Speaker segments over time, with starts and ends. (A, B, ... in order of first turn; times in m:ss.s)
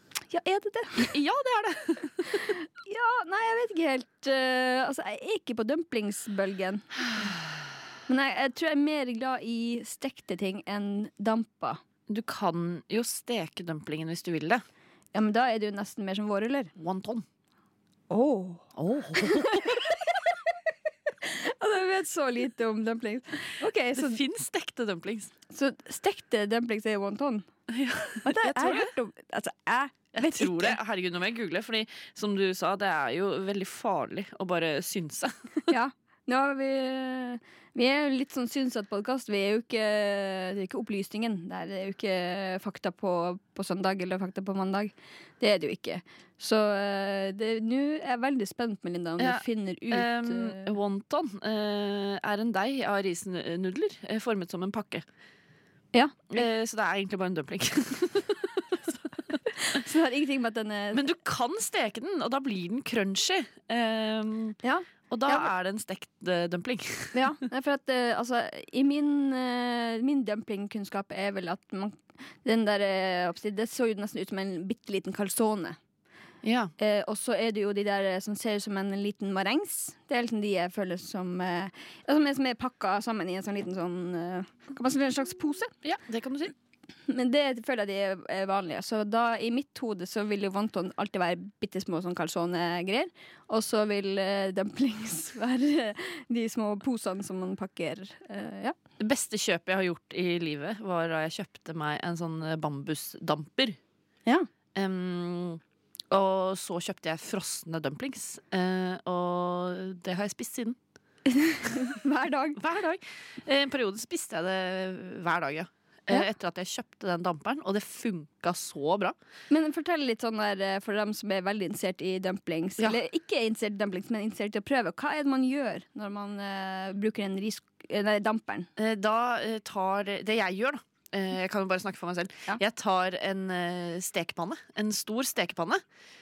0:00.3-0:01.1 A
0:01.0-0:02.5 B
0:02.3-0:07.3 A
0:08.1-0:11.8 A
0:12.1-0:14.6 B
0:15.1-0:16.7 A
0:16.8-0:17.2 B
0:18.1-0:20.2 A
0:18.8-0:19.8 B
0:21.2-0:24.2 A
0:23.9-0:25.3 B
0:25.5-0:27.4 A
0:27.7-0:28.9 B
0:28.2-0:30.8 A
0:30.1-0:35.6 B
0:35.7-0:50.7 A
0:49.2-0:55.0 B
0:55.9-0:56.4 A
0:56.3-0:59.0 B
0:59.6-1:01.0 A
1:00.9-1:04.6 B
1:04.6-1:05.5 A
1:05.1-1:07.3 B
1:07.1-1:15.8 A
1:16.4-1:16.7 B
1:16.8-1:25.7 A
1:25.8-1:26.5 B
1:27.1-1:38.8 A
1:39.0-1:43.8 B
1:44.7-1:50.8 B
1:51.3-1:52.6 A
1:52.6-1:59.1 B
1:59.5-2:08.7 A
2:08.8-2:15.8 B